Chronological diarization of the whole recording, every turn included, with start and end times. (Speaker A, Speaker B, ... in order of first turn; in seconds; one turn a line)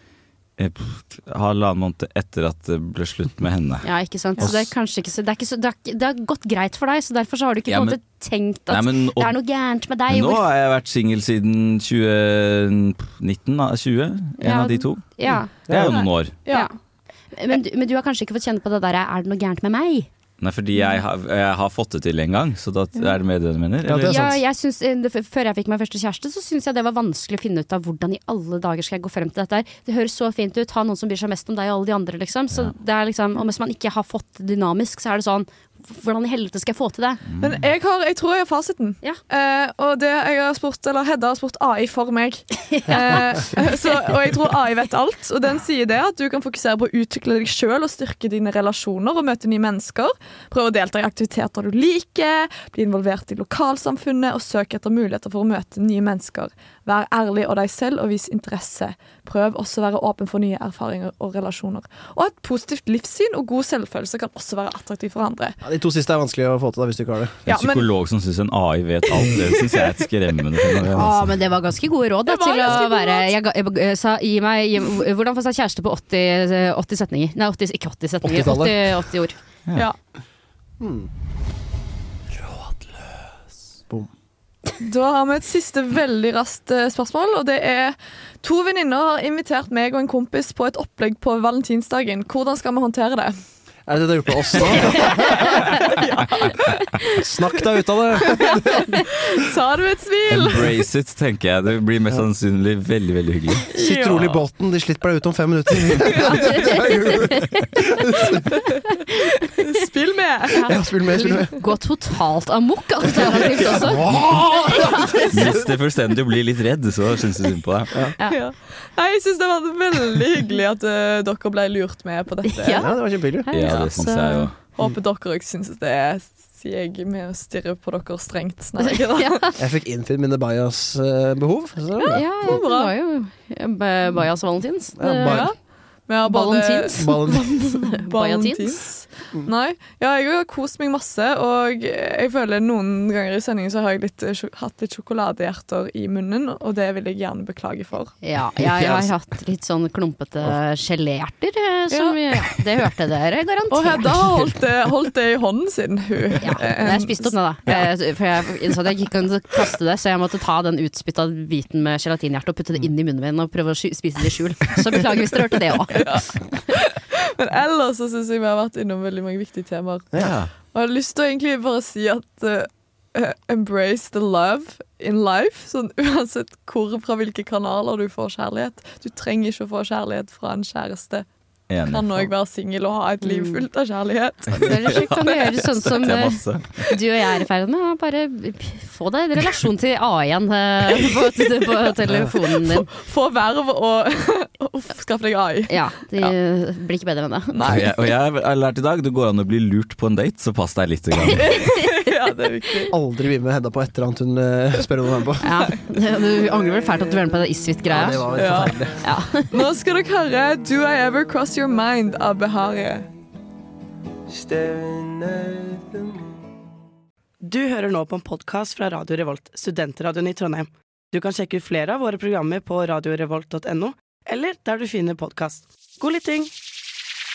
Speaker A: 0.6-3.9
Speaker B: 3.8-10.4
Speaker A: 7.7-8.0
Speaker A: 8.7-9.3
Speaker A: 10.1-15.0
Speaker B: 14.4-15.5
Speaker A: 15.5-16.4
Speaker C: 15.7-15.9
Speaker D: 15.8-16.7
Speaker B: 17.3-20.1
Speaker A: 20.4-24.3
Speaker C: 23.8-24.4
Speaker B: 24.0-37.2
Speaker A: 37.3-37.6
Speaker D: 37.4-65.6
Speaker B: 42.8-43.4
Speaker C: 65.6-67.5
Speaker D: 67.5-67.8
Speaker A: 67.5-71.3
Speaker B: 70.9-79.3
Speaker D: 72.3-73.3
Speaker C: 78.2-78.9
Speaker C: 80.8-81.1
Speaker D: 84.8-93.3
Speaker C: 93.9-95.7
Speaker D: 94.7-97.6
Speaker C: 97.2-99.0
Speaker D: 98.2-100.7
Speaker A: 100.3-103.7
Speaker D: 103.7-104.4
Speaker C: 103.7-108.5
Speaker D: 106.2-106.7
Speaker B: 106.4-107.5
Speaker D: 109.4-110.7
Speaker B: 110.5-114.1
Speaker C: 110.7-111.6
Speaker C: 113.6-115.7
Speaker B: 114.7-115.3
Speaker A: 115.3-117.9
Speaker D: 118.2-122.9
Speaker B: 122.5-124.5
Speaker C: 122.8-123.5
Speaker A: 123.5-124.5
Speaker D: 124.8-129.5
Speaker B: 129.1-129.4
Speaker C: 129.6-132.6
Speaker D: 132.1-132.9
Speaker B: 132.1-135.5
Speaker C: 135.0-135.5
Speaker D: 135.2-135.6
Speaker D: 136.1-148.1
Speaker B: 136.2-138.7
Speaker C: 137.0-137.5
Speaker B: 148.2-154.5
Speaker C: 148.6-149.1
Speaker D: 151.9-152.2
Speaker D: 153.7-157.3
Speaker B: 156.4-166.1
Speaker D: 165.9-170.1
Speaker A: 170.2-170.5
Speaker D: 170.7-181.3
Speaker A: 181.7-182.3
Speaker D: 181.9-185.2
Speaker B: 183.2-183.6
Speaker B: 184.5-192.9
Speaker A: 184.6-186.8
Speaker D: 192.5-195.7
Speaker B: 195.7-197.6
Speaker D: 197.5-197.9
Speaker A: 197.6-201.6
Speaker D: 201.3-202.9
Speaker C: 202.9-205.4
Speaker B: 205.4-209.6
Speaker C: 207.9-209.0
Speaker D: 208.3-208.8
Speaker D: 209.5-213.1
Speaker E: 217.4-226.5